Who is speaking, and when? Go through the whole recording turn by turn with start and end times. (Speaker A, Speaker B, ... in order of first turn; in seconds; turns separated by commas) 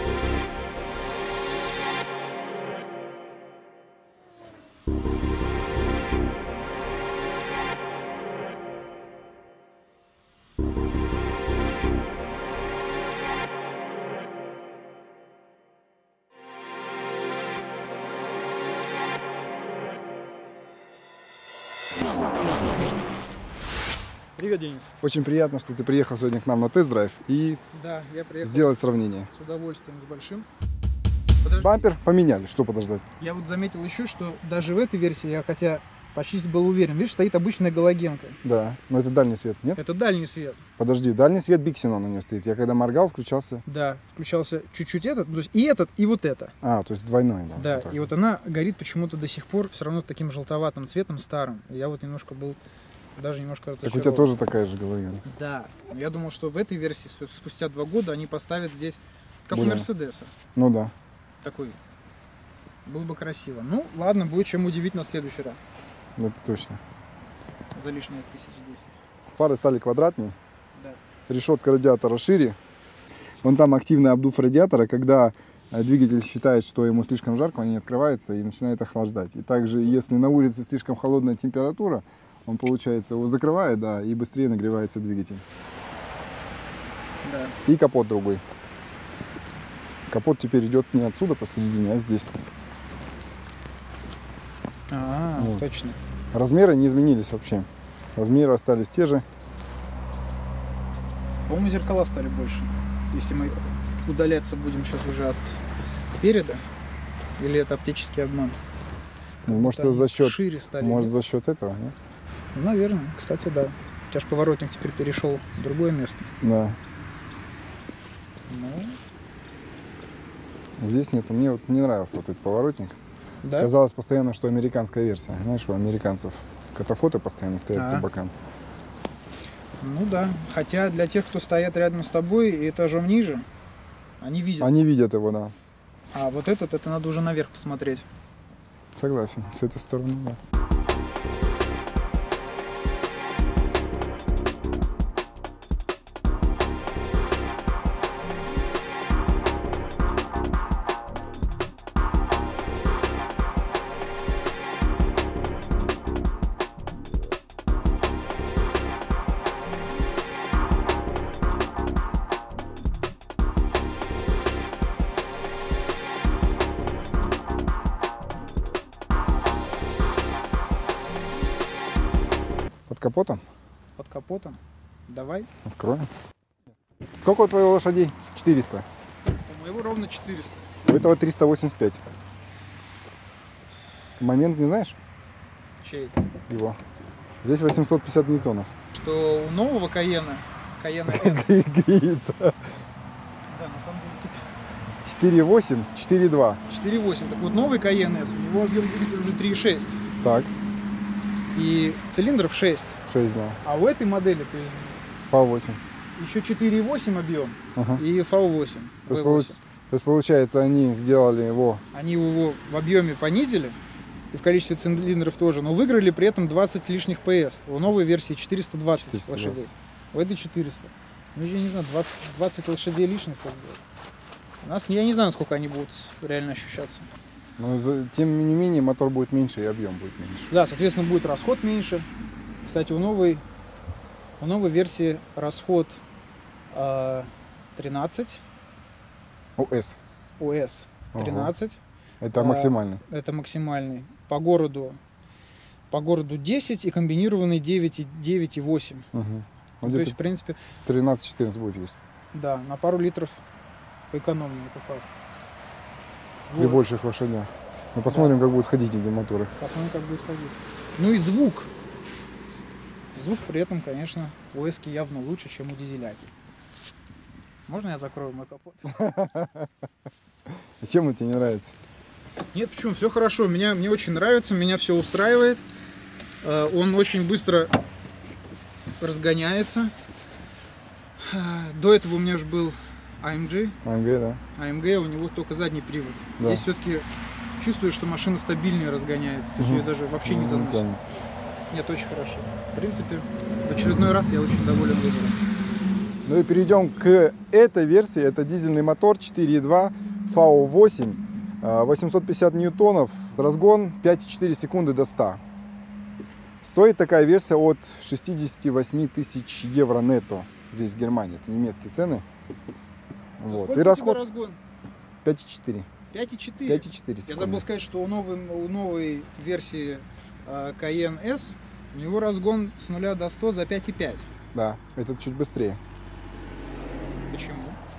Speaker A: 24.4-24.9, Speaker B: 25.0-27.6, Speaker A: 27.7-28.7, Speaker B: 28.4-29.3, Speaker A: 29.3-30.5, Speaker A: 31.4-31.8, Speaker B: 31.6-33.0, Speaker A: 33.2-38.4, Speaker B: 38.4-39.8, Speaker A: 39.8-40.6, Speaker B: 40.8-43.6, Speaker A: 43.7-46.5, Speaker B: 46.6-48.0, Speaker A: 47.5-52.6, Speaker A: 53.2-54.3, Speaker B: 53.8-55.2, Speaker A: 55.2-60.3, Speaker B: 59.5-59.9, Speaker B: 60.5-60.9, Speaker A: 61.4-61.8, Speaker A: 62.9-65.7, Speaker B: 66.2-66.8, Speaker A: 67.7-69.0, Speaker B: 69.3-70.4, Speaker A: 70.8-71.0, Speaker B: 71.3-72.6, Speaker B: 73.4-85.4, Speaker A: 87.2-87.6, Speaker B: 87.7-88.4, Speaker B: 90.1-92.3, Speaker A: 94.9-96.0, Speaker B: 95.4-95.6, Speaker B: 96.3-99.2, Speaker A: 101.5-105.6, Speaker A: 106.1-106.6, Speaker A: 107.4-108.6, Speaker A: 109.5-111.1, Speaker B: 109.5-112.0, Speaker A: 112.5-116.3, Speaker B: 116.4-116.8, Speaker A: 118.5-119.0, Speaker B: 120.8-123.0, Speaker A: 123.4-123.7, Speaker B: 123.6-128.3, Speaker A: 127.7-128.1, Speaker A: 129.8-133.5, Speaker A: 134.2-134.8, Speaker B: 134.6-135.5, Speaker A: 136.1-138.1, Speaker B: 139.0-140.4, Speaker B: 172.9-173.4, Speaker A: 174.0-175.5, Speaker B: 175.7-176.1, Speaker B: 177.2-178.9, Speaker A: 179.4-180.8, Speaker B: 180.8-182.0, Speaker B: 184.2-185.0, Speaker A: 185.8-186.2, Speaker B: 186.5-186.8, Speaker B: 187.4-188.7, Speaker A: 188.9-191.5, Speaker B: 191.1-192.6, Speaker A: 193.5-194.5, Speaker B: 195.0-196.6, Speaker A: 196.7-200.0, Speaker B: 200.2-200.5, Speaker A: 201.5-203.0, Speaker B: 203.1-203.6, Speaker A: 203.6-205.0, Speaker B: 205.3-205.8, Speaker A: 206.2-209.6, Speaker B: 207.8-208.0, Speaker B: 209.1-211.8, Speaker A: 211.9-213.8, Speaker A: 214.3-223.8, Speaker B: 219.0-219.7, Speaker A: 224.6-227.1, Speaker B: 227.6-230.5, Speaker A: 230.5-232.1, Speaker A: 232.7-233.4, Speaker A: 234.4-236.0, Speaker A: 236.7-238.4, Speaker B: 239.6-240.0, Speaker A: 240.4-241.8, Speaker B: 241.1-241.5, Speaker B: 242.2-243.0, Speaker A: 242.3-245.0, Speaker A: 245.9-249.1, Speaker B: 249.1-250.2, Speaker A: 249.8-250.6, Speaker B: 250.8-252.0, Speaker A: 252.3-253.4, Speaker A: 254.1-255.1, Speaker A: 256.5-256.8, Speaker B: 256.6-259.5, Speaker A: 258.1-258.4, Speaker A: 259.6-261.7, Speaker A: 263.1-266.2, Speaker A: 267.7-269.0, Speaker B: 268.9-269.7, Speaker B: 270.8-271.8, Speaker A: 272.5-275.6, Speaker A: 276.4-277.7, Speaker A: 279.0-279.9, Speaker A: 281.2-283.8, Speaker B: 283.8-284.4, Speaker A: 284.6-287.1, Speaker B: 286.4-286.6, Speaker A: 287.6-290.9, Speaker B: 289.6-291.0, Speaker A: 291.7-295.4, Speaker B: 296.2-305.4, Speaker B: 306.6-312.2, Speaker B: 313.4-314.2, Speaker A: 313.5-314.6, Speaker B: 315.2-315.9, Speaker A: 316.1-324.3, Speaker B: 316.7-317.6, Speaker B: 324.5-325.8, Speaker A: 327.3-327.8